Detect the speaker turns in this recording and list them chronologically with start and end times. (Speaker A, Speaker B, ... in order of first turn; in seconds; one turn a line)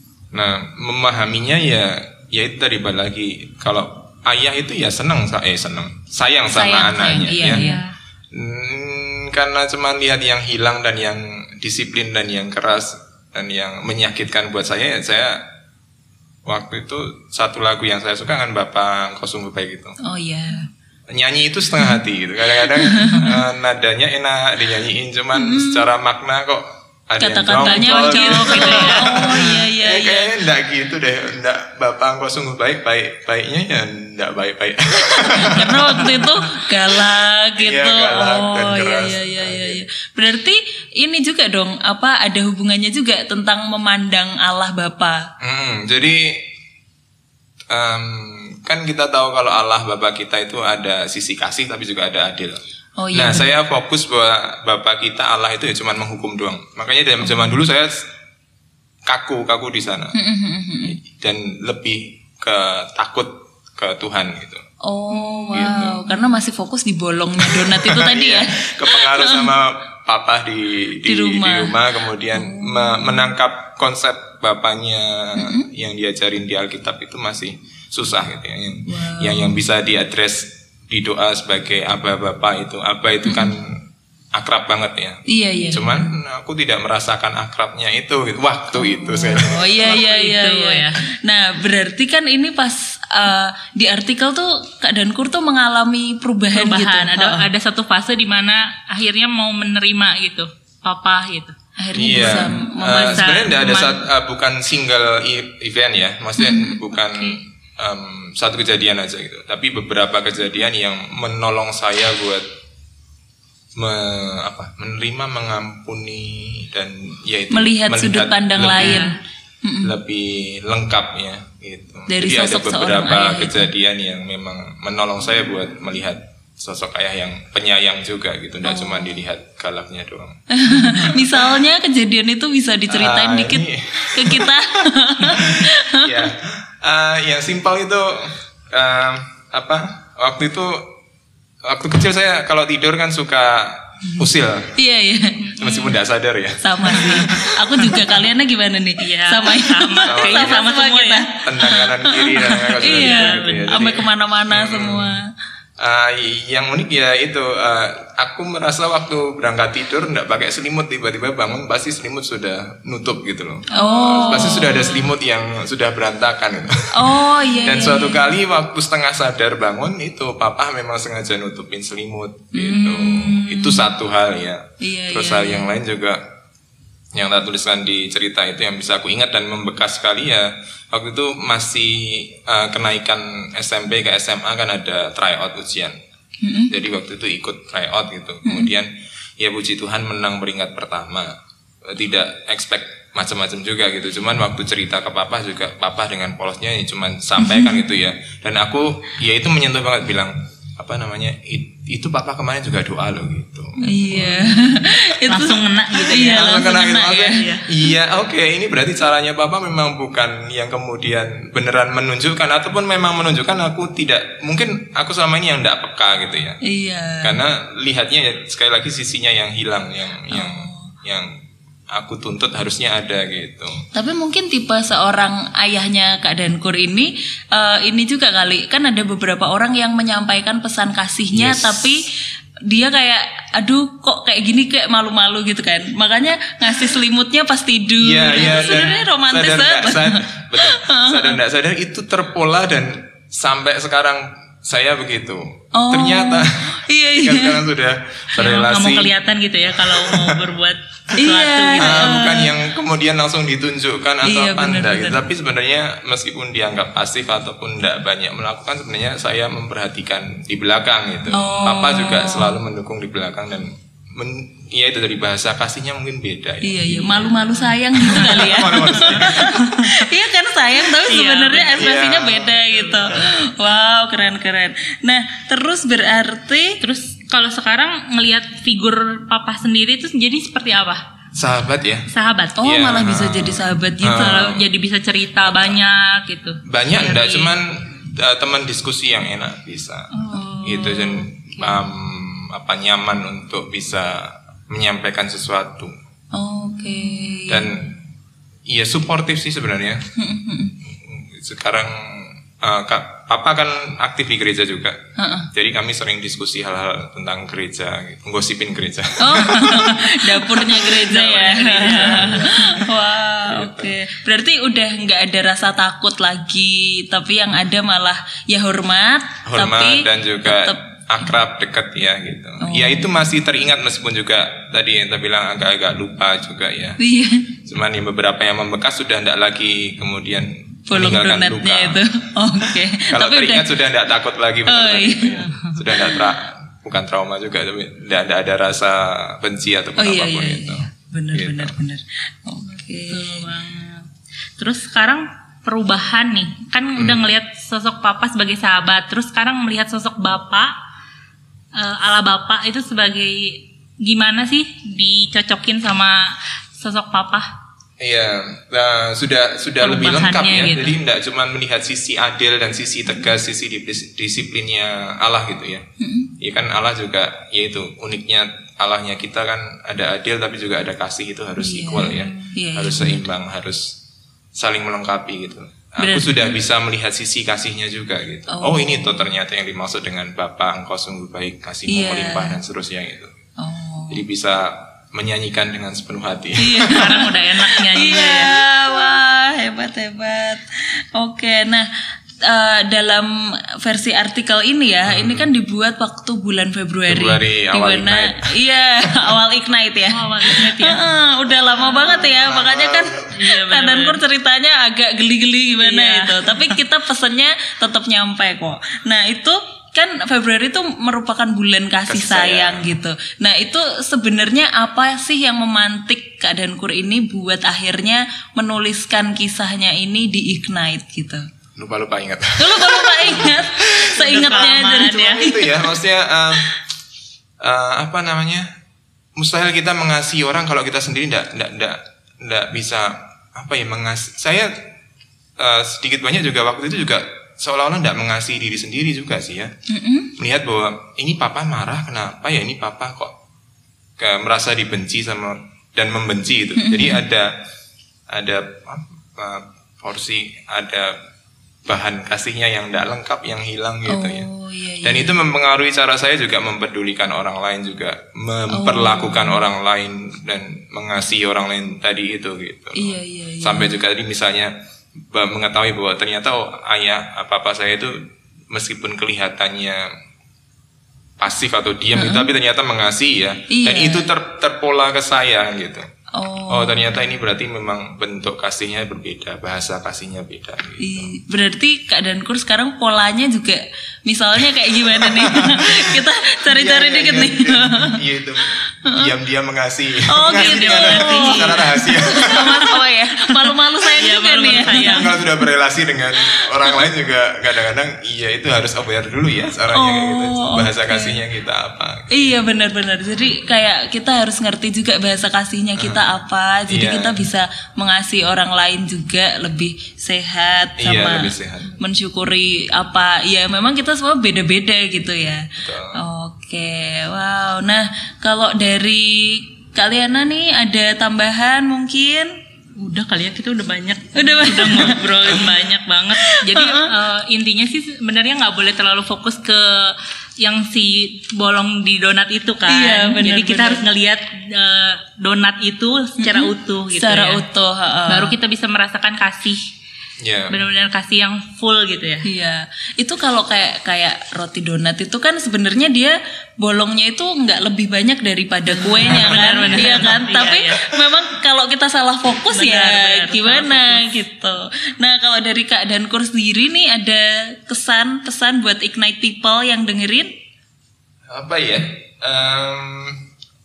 Speaker A: 0.3-7.6
Speaker B: 6.5-7.8
Speaker C: 6.8-7.9
Speaker A: 8.3-15.4
Speaker A: 16.4-20.0
Speaker B: 20.0-20.7
Speaker A: 21.1-36.2
Speaker B: 22.6-23.4
Speaker B: 25.3-25.9
Speaker B: 27.2-30.3
Speaker C: 27.6-29.4
Speaker B: 35.1-45.2
Speaker A: 37.6-39.8
Speaker A: 45.4-46.4
Speaker A: 47.7-52.6
Speaker B: 53.0-53.5
Speaker A: 53.1-58.1
Speaker A: 59.0-60.1
Speaker B: 60.1-61.0
Speaker A: 60.8-64.6
Speaker B: 64.8-69.5
Speaker C: 65.1-66.1
Speaker A: 65.5-66.0
Speaker A: 67.4-89.7
Speaker B: 71.0-71.8
Speaker B: 72.3-73.3
Speaker B: 75.3-75.7
Speaker B: 78.9-79.6
Speaker B: 83.2-83.5
Speaker B: 85.3-85.9
Speaker B: 88.7-97.5
Speaker C: 89.8-91.0
Speaker C: 96.5-101.5
Speaker B: 101.8-103.5
Speaker A: 101.9-112.5
Speaker C: 102.1-104.0
Speaker C: 106.9-107.4
Speaker A: 113.7-119.1
Speaker B: 117.5-119.9
Speaker C: 118.6-119.1
Speaker A: 119.8-130.4
Speaker B: 122.1-123.7
Speaker B: 128.6-129.2
Speaker B: 130.5-136.2
Speaker A: 132.9-134.6
Speaker A: 135.3-140.9
Speaker A: 141.6-144.7
Speaker B: 144.7-145.6
Speaker C: 145.5-145.9
Speaker A: 145.6-147.6
Speaker B: 146.6-155.3
Speaker C: 146.9-147.9
Speaker C: 149.0-151.3
Speaker A: 150.0-150.7
Speaker A: 151.4-155.2
Speaker C: 152.5-153.9
Speaker A: 155.8-176.2
Speaker B: 163.7-165.0
Speaker C: 163.7-164.8
Speaker B: 166.9-168.3
Speaker B: 172.5-173.9
Speaker B: 174.8-175.7
Speaker A: 177.1-185.9
Speaker B: 186.4-186.7
Speaker A: 186.7-191.3
Speaker B: 188.4-188.7
Speaker A: 191.8-204.6
Speaker B: 197.4-197.8
Speaker B: 203.8-207.4
Speaker C: 205.3-207.7
Speaker A: 206.3-216.6
Speaker B: 216.6-217.4
Speaker A: 217.2-221.3
Speaker B: 220.3-220.9
Speaker A: 221.9-223.8
Speaker B: 223.9-232.1
Speaker A: 231.3-232.0
Speaker B: 232.7-241.4
Speaker A: 238.0-249.1
Speaker C: 238.4-238.9
Speaker B: 245.7-247.7
Speaker C: 248.3-252.2
Speaker A: 249.8-250.4
Speaker B: 251.2-252.5
Speaker A: 251.8-269.6
Speaker B: 254.2-255.2
Speaker B: 261.3-262.6
Speaker B: 266.6-276.8
Speaker C: 268.0-269.8
Speaker C: 270.9-271.8
Speaker A: 271.7-273.4
Speaker C: 272.5-273.1
Speaker C: 276.8-281.0
Speaker A: 281.3-284.7
Speaker C: 282.1-282.6
Speaker B: 282.6-284.4
Speaker C: 284.1-287.5
Speaker A: 285.4-285.8
Speaker A: 286.6-290.1
Speaker C: 290.1-291.8
Speaker B: 290.3-290.9
Speaker A: 290.6-295.9
Speaker B: 296.3-297.7
Speaker C: 297.1-297.4
Speaker A: 297.5-298.0
Speaker A: 298.7-300.0
Speaker B: 300.1-300.8
Speaker A: 300.8-305.0
Speaker B: 305.2-305.5
Speaker A: 305.5-309.9
Speaker B: 309.2-320.8
Speaker C: 309.5-310.0
Speaker C: 310.6-312.7
Speaker A: 310.8-312.9
Speaker A: 313.4-313.9
Speaker A: 319.4-327.0
Speaker B: 322.6-323.1
Speaker B: 327.0-327.5
Speaker A: 327.6-332.0
Speaker B: 330.9-333.7
Speaker A: 333.1-341.8
Speaker B: 334.6-336.2
Speaker C: 335.4-335.8
Speaker B: 339.9-343.5
Speaker C: 343.0-344.1
Speaker C: 344.6-350.7
Speaker A: 346.9-347.3
Speaker C: 351.7-357.5
Speaker A: 358.0-365.8
Speaker C: 359.8-361.0
Speaker B: 366.0-366.3
Speaker A: 366.4-373.9
Speaker B: 371.6-373.2
Speaker C: 372.0-372.5
Speaker A: 374.5-383.3
Speaker B: 376.0-376.5
Speaker B: 378.5-379.3
Speaker B: 381.9-382.6
Speaker B: 383.6-384.2
Speaker A: 384.1-387.0
Speaker B: 386.6-391.9
Speaker C: 386.6-388.6
Speaker B: 392.4-421.4
Speaker A: 395.1-395.5
Speaker A: 397.1-398.6
Speaker C: 400.1-401.1
Speaker C: 401.7-402.3
Speaker A: 402.1-403.3
Speaker C: 403.3-404.2
Speaker C: 405.7-406.8
Speaker A: 412.1-412.9
Speaker A: 421.7-426.7
Speaker B: 422.6-425.9
Speaker C: 424.1-425.5
Speaker A: 427.6-428.7
Speaker A: 429.4-434.8
Speaker A: 435.6-439.7
Speaker B: 439.9-440.3
Speaker A: 440.4-443.3
Speaker A: 444.2-447.5
Speaker B: 446.8-447.2
Speaker A: 448.3-451.1
Speaker A: 451.9-454.5
Speaker B: 454.1-455.4
Speaker A: 455.0-464.7
Speaker B: 458.7-459.6
Speaker B: 462.9-463.9
Speaker A: 465.3-470.1
Speaker A: 471.4-476.1
Speaker B: 472.1-472.5
Speaker B: 473.7-474.3
Speaker B: 476.3-477.1
Speaker A: 476.7-481.3
Speaker B: 481.0-488.2
Speaker A: 485.2-492.8
Speaker B: 489.1-489.3
Speaker B: 490.3-495.4
Speaker C: 490.5-495.3
Speaker A: 494.8-502.6
Speaker B: 499.9-501.4
Speaker B: 502.3-515.6
Speaker A: 506.0-506.2
Speaker A: 506.9-507.4
Speaker A: 511.0-511.9
Speaker A: 515.8-516.2
Speaker B: 516.1-522.5
Speaker C: 523.0-537.6
Speaker B: 524.3-525.7
Speaker B: 526.4-527.1
Speaker B: 532.9-534.0
Speaker B: 536.4-538.5
Speaker C: 538.3-539.8
Speaker A: 540.4-540.8
Speaker C: 540.7-542.4
Speaker B: 542.4-560.5
Speaker C: 548.9-551.1
Speaker A: 549.2-549.6
Speaker C: 552.7-554.2
Speaker A: 561.5-563.4